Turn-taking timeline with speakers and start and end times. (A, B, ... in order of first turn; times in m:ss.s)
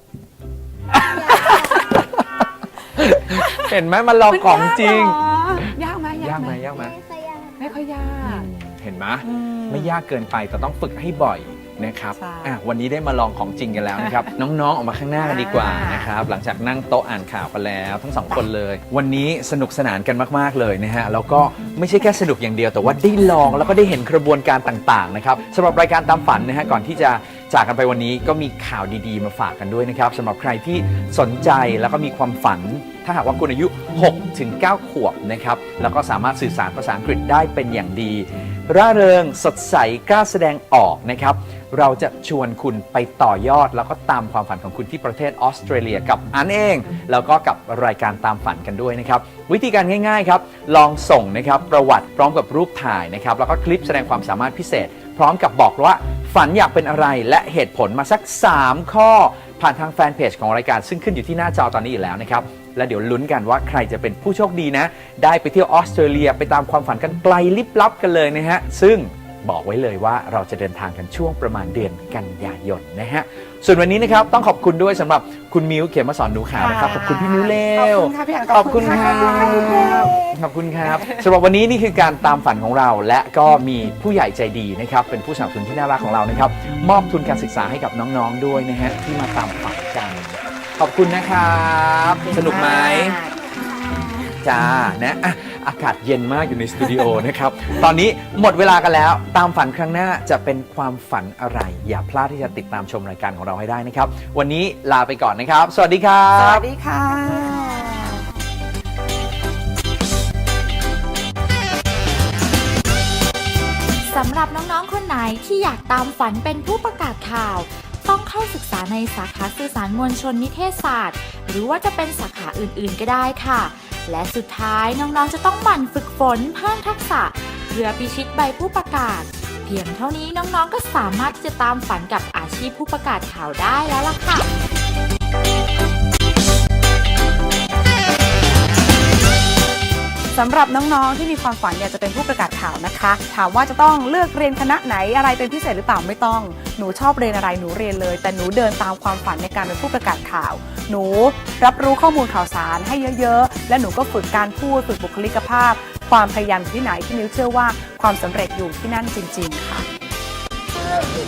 0:00.9-0:05.2 A
0:01.1-0:01.9 B
0:03.4-0:03.7 C
0:04.3-0:06.7 C
0:06.2-0:06.9 A
0:06.7-0:07.8 B
0:07.6-0:08.5 C
0:08.2-1:33.2 A
0:09.2-0:10.0 C
0:12.1-0:12.5 C
0:14.0-0:14.3 C
0:15.2-0:16.1 C
1:16.6-1:20.1 C
1:20.8-1:21.2 C
1:32.2-1:33.2 C
1:34.4-1:46.6 A
1:46.3-1:48.3 C
1:54.1-2:14.5 D
2:20.3-2:39.8 C